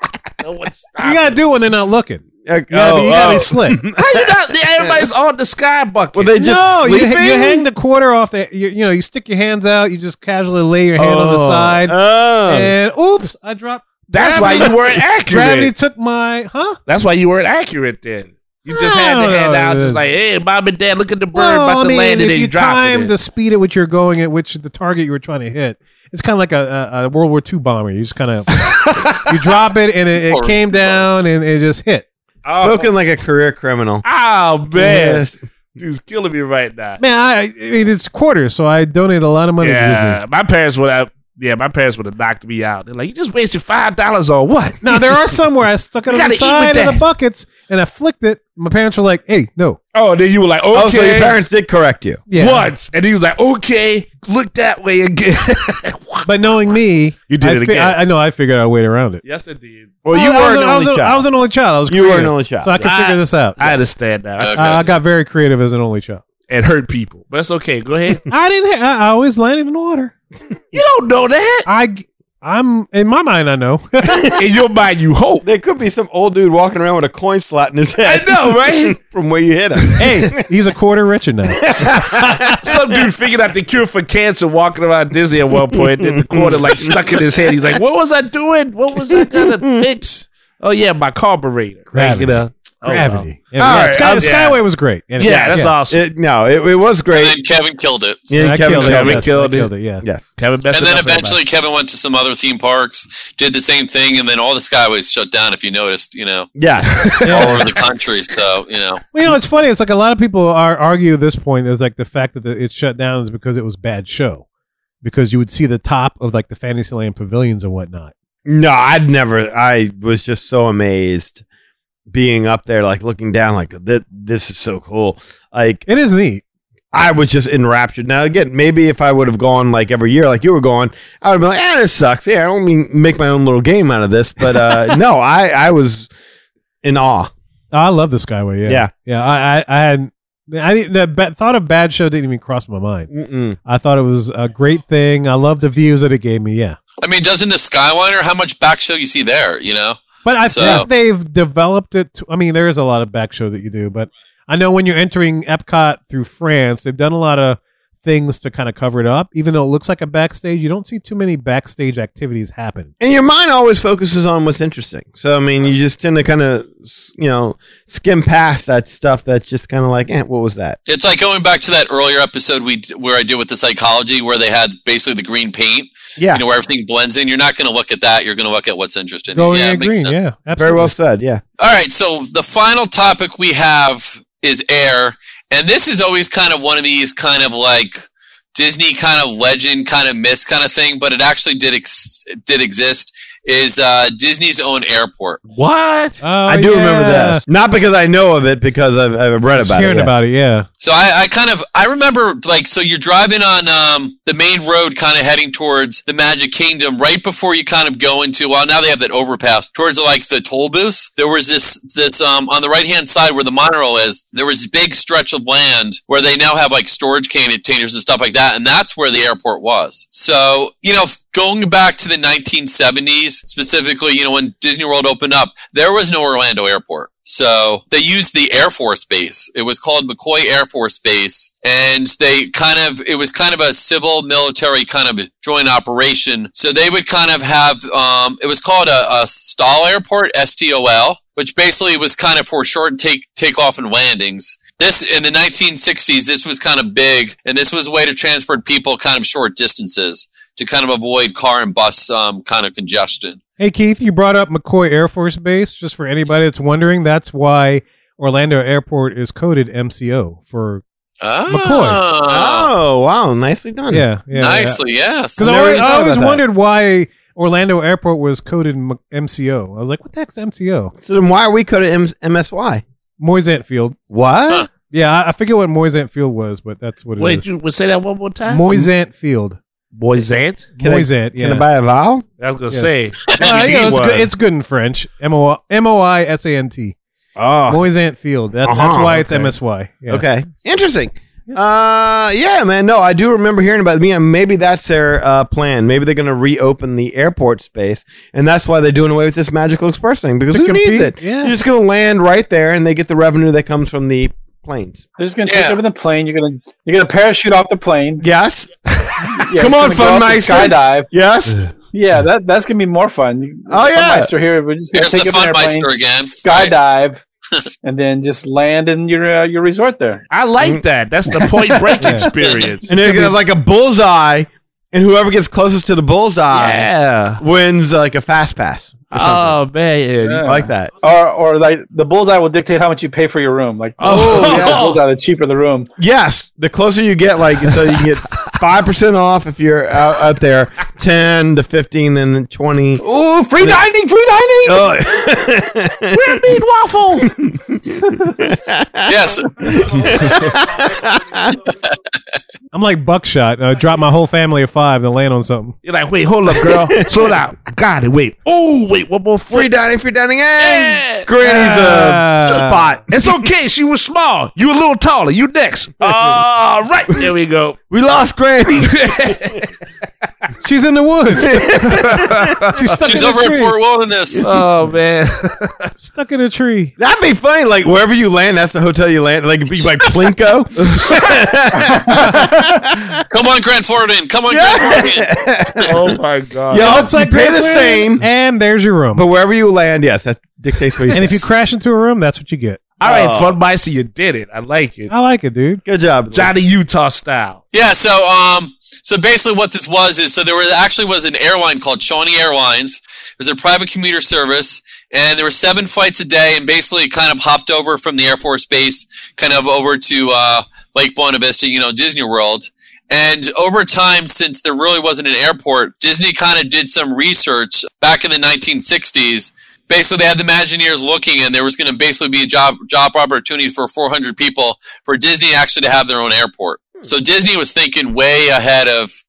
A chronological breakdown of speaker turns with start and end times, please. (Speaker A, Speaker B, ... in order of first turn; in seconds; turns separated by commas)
Speaker A: 0.4-1.4, Speaker B: 1.0-3.8, Speaker C: 2.5-5.1, Speaker A: 4.0-6.3, Speaker C: 6.2-7.7, Speaker B: 6.4-12.0, Speaker C: 11.0-12.7, Speaker B: 12.5-16.8, Speaker A: 14.1-15.7, Speaker A: 16.9-23.1, Speaker B: 18.7-20.0, Speaker B: 21.3-32.1, Speaker D: 30.2-31.0, Speaker A: 32.5-32.9, Speaker C: 32.6-34.0, Speaker A: 34.0-37.0, Speaker C: 34.8-35.3, Speaker B: 37.0-40.2, Speaker A: 39.6-45.0, Speaker B: 44.8-49.8, Speaker A: 46.1-47.0, Speaker A: 49.9-51.4, Speaker C: 50.7-52.2, Speaker B: 52.3-52.7, Speaker A: 52.3-56.3, Speaker B: 56.2-59.2, Speaker A: 57.3-58.0, Speaker A: 59.2-60.0, Speaker C: 60.0-61.3, Speaker B: 60.1-63.8, Speaker C: 61.9-63.2, Speaker A: 62.8-64.9, Speaker D: 64.4-64.8, Speaker B: 64.6-66.2, Speaker A: 66.5-68.2, Speaker B: 68.3-70.1, Speaker A: 70.7-71.7, Speaker B: 71.7-74.2, Speaker A: 74.4-75.4, Speaker C: 75.4-80.4, Speaker A: 78.0-79.0, Speaker B: 80.0-82.5, Speaker C: 81.7-82.9, Speaker A: 82.6-94.6, Speaker C: 85.7-87.1, Speaker C: 89.1-89.8, Speaker B: 91.9-95.8, Speaker C: 93.6-94.3, Speaker A: 95.2-96.0, Speaker C: 95.2-97.4, Speaker D: 97.1-98.3, Speaker C: 98.3-99.3, Speaker B: 98.3-100.0, Speaker A: 98.7-99.7, Speaker C: 100.0-100.3, Speaker A: 100.4-101.4, Speaker D: 100.7-106.5, Speaker C: 106.6-107.5, Speaker A: 106.9-107.4, Speaker B: 107.2-107.6, Speaker D: 107.3-109.0, Speaker B: 109.1-114.4, Speaker B: 115.0-118.1, Speaker C: 118.5-121.4, Speaker C: 122.1-125.9, Speaker B: 125.9-126.4, Speaker C: 126.9-136.1, Speaker C: 136.8-137.3, Speaker B: 137.7-143.1, Speaker C: 138.7-138.9, Speaker C: 143.1-143.6, Speaker B: 143.7-146.8, Speaker D: 147.0-150.9, Speaker B: 150.2-162.9, Speaker C: 163.0-170.8, Speaker D: 170.9-180.2, Speaker C: 176.2-176.4, Speaker B: 179.3-180.9, Speaker C: 180.6-181.4, Speaker D: 181.6-188.0, Speaker D: 188.5-195.4, Speaker A: 195.5-196.2, Speaker B: 196.2-197.4, Speaker C: 196.5-200.1, Speaker B: 199.6-200.7, Speaker D: 200.8-253.4, Speaker B: 253.6-260.8, Speaker D: 261.2-262.7, Speaker B: 261.5-262.0, Speaker C: 262.3-264.1, Speaker B: 263.9-264.8, Speaker D: 264.4-265.4, Speaker B: 265.4-270.9, Speaker C: 265.4-266.4, Speaker C: 271.0-272.8, Speaker B: 273.2-274.0, Speaker C: 274.1-274.7, Speaker B: 274.9-277.5, Speaker A: 277.2-278.8, Speaker B: 278.5-279.6, Speaker A: 279.9-280.7, Speaker C: 280.8-282.2, Speaker B: 280.8-281.7, Speaker A: 282.4-284.3, Speaker B: 282.7-287.0, Speaker C: 287.4-287.8, Speaker B: 287.7-290.3, Speaker C: 288.6-289.5, Speaker C: 290.1-305.1, Speaker B: 300.5-301.6, Speaker E: 305.2-308.2, Speaker D: 305.4-305.8, Speaker C: 308.2-308.7, Speaker E: 309.5-311.1, Speaker C: 309.5-311.6, Speaker E: 311.9-317.2, Speaker C: 313.7-314.3, Speaker D: 314.9-316.8, Speaker E: 317.8-320.3, Speaker A: 320.3-323.0, Speaker C: 320.6-321.4, Speaker B: 322.0-322.3, Speaker C: 322.9-329.6, Speaker B: 323.0-323.3, Speaker A: 326.5-327.4, Speaker A: 329.1-330.5, Speaker E: 330.2-335.9, Speaker C: 330.4-330.9, Speaker A: 334.0-335.0, Speaker C: 334.1-334.8, Speaker C: 336.0-343.0, Speaker E: 343.0-344.9, Speaker C: 344.6-346.2, Speaker A: 346.1-347.3, Speaker C: 347.2-351.6, Speaker D: 349.1-350.1, Speaker B: 352.7-355.8, Speaker A: 355.8-359.7, Speaker C: 356.5-357.2, Speaker C: 359.5-363.5, Speaker A: 360.6-361.3, Speaker B: 361.4-362.7, Speaker A: 363.1-367.8, Speaker C: 367.9-369.4, Speaker A: 368.8-369.7, Speaker B: 370.6-372.1, Speaker C: 371.4-372.5, Speaker A: 371.9-373.1, Speaker B: 372.8-373.7, Speaker D: 373.1-374.5, Speaker A: 374.4-375.9, Speaker B: 376.0-376.9, Speaker C: 377.0-383.1, Speaker D: 383.3-385.3, Speaker C: 384.5-386.2, Speaker A: 385.9-387.1, Speaker C: 386.7-388.2, Speaker B: 386.7-389.2, Speaker C: 389.1-391.5, Speaker B: 391.1-392.8, Speaker A: 393.0-395.1, Speaker C: 393.0-393.6, Speaker B: 395.1-395.8, Speaker C: 395.9-396.5, Speaker A: 396.3-397.6, Speaker D: 397.7-429.1